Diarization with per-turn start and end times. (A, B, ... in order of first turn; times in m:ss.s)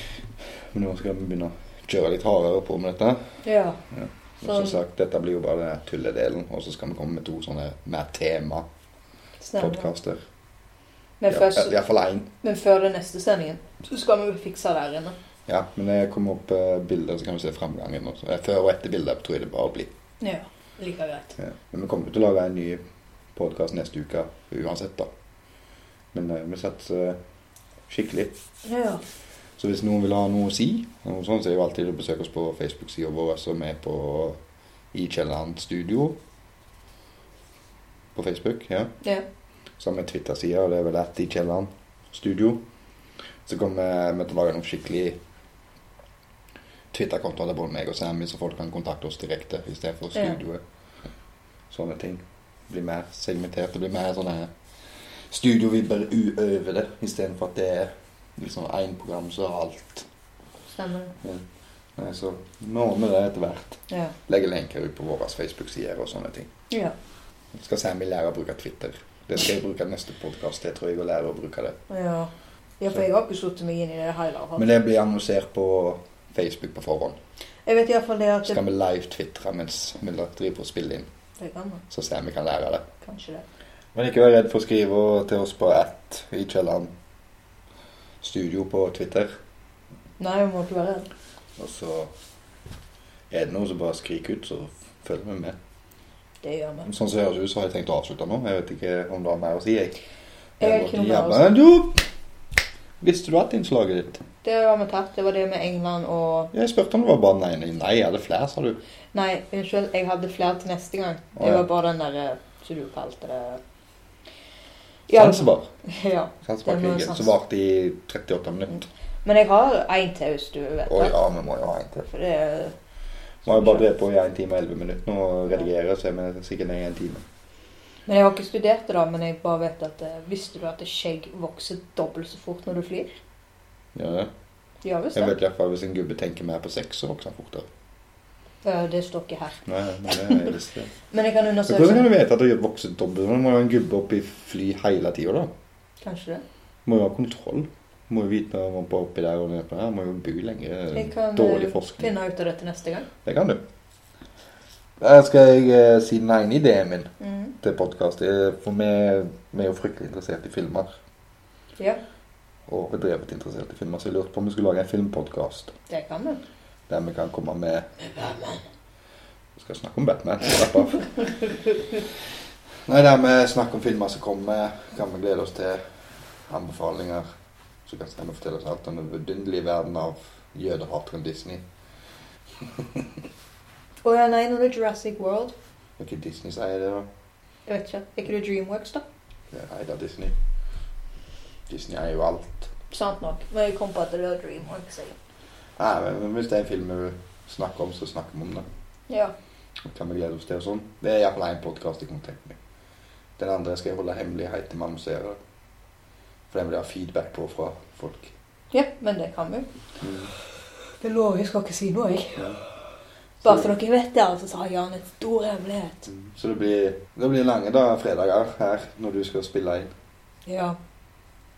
0:00.7-0:03.2 A
0:03.4-0:03.8 B
0:03.9-0:08.6 A
0:04.4-0:04.8 B
0:09.4-0:09.9 B
0:09.6-0:10.2 A
0:11.2-0:11.7 B
0:11.3-0:12.3 A
0:12.4-0:15.2 B
0:15.5-0:19.9 A
0:20.2-0:21.4 B
0:21.4-0:22.8 A
0:23.4-0:25.1 A
0:26.1-0:27.2 A
0:27.9-0:28.3 A
0:28.6-0:29.0 B
0:29.6-0:34.4 A
0:34.9-0:36.2 A
0:38.2-0:38.9 A
0:39.8-0:42.6 A
0:43.5-0:45.2 A
0:46.9-0:50.6 A
0:51.7-0:54.5 A
0:55.3-1:00.1 A
1:00.7-1:01.1 B
1:02.0-1:06.5 A
1:03.9-1:04.2 B
1:06.7-1:07.0 B
1:07.5-1:11.8 A
1:11.9-1:14.7 B
1:14.6-1:17.2 A
1:17.7-1:18.6 B
1:18.5-1:21.1 A
1:21.4-1:21.8 B
1:21.9-1:22.9 A
1:23.0-1:23.4 B
1:24.0-1:26.9 A
1:28.2-1:29.3 A
1:30.2-1:31.1 B
1:31.6-1:32.1 A
1:33.3-1:35.6 A
1:36.4-1:36.9 B
1:36.8-1:40.0 A
1:40.6-1:41.5 B
1:40.6-1:42.0 A
1:43.0-1:44.2 A
1:44.4-1:46.5 B
1:46.5-1:48.8 A
1:49.1-1:53.6 B
1:51.4-1:51.7 A
1:55.1-1:57.3 B
1:55.1-1:55.7 A
1:56.4-1:58.9 A
1:59.2-2:01.2 B
2:00.9-2:02.1 A
2:02.0-2:02.8 B
2:03.4-2:03.8 B
2:03.4-2:07.2 A
2:08.1-2:13.2 B
2:14.0-2:14.3 A
2:14.8-2:15.3 B
2:15.2-2:17.7 A
2:18.6-2:20.6 B
2:19.7-2:20.9 A
2:21.1-2:22.1 B
2:21.7-2:25.5 A
2:26.0-2:26.4 B
2:26.9-2:32.1 A
2:30.9-2:33.1 B
2:33.2-2:33.6 A
2:35.0-2:40.9 A
2:37.2-2:37.5 B
2:42.7-2:45.8 A
2:45.9-2:46.4 B
2:46.9-2:48.0 A
2:48.1-2:48.6 B
2:49.6-2:51.3 A
2:52.9-2:55.8 A
2:56.5-2:57.3 A
2:57.9-3:01.6 A
3:02.8-3:03.0 A
3:04.0-3:05.5 B
3:06.0-3:07.1 A
3:07.7-3:09.0 B
3:09.5-3:10.4 A
3:11.7-3:12.7 A
3:12.9-3:15.2 B
3:15.8-3:18.6 A
3:19.1-3:19.3 B
3:19.9-3:22.6 A
3:23.4-3:25.4 A
3:26.5-3:28.3 A
3:28.7-3:29.7 B
3:30.0-3:30.3 A
3:31.0-3:32.6 B
3:33.4-3:33.7 A
3:33.4-3:36.1 B
3:36.1-3:39.9 A
3:40.5-3:40.8 B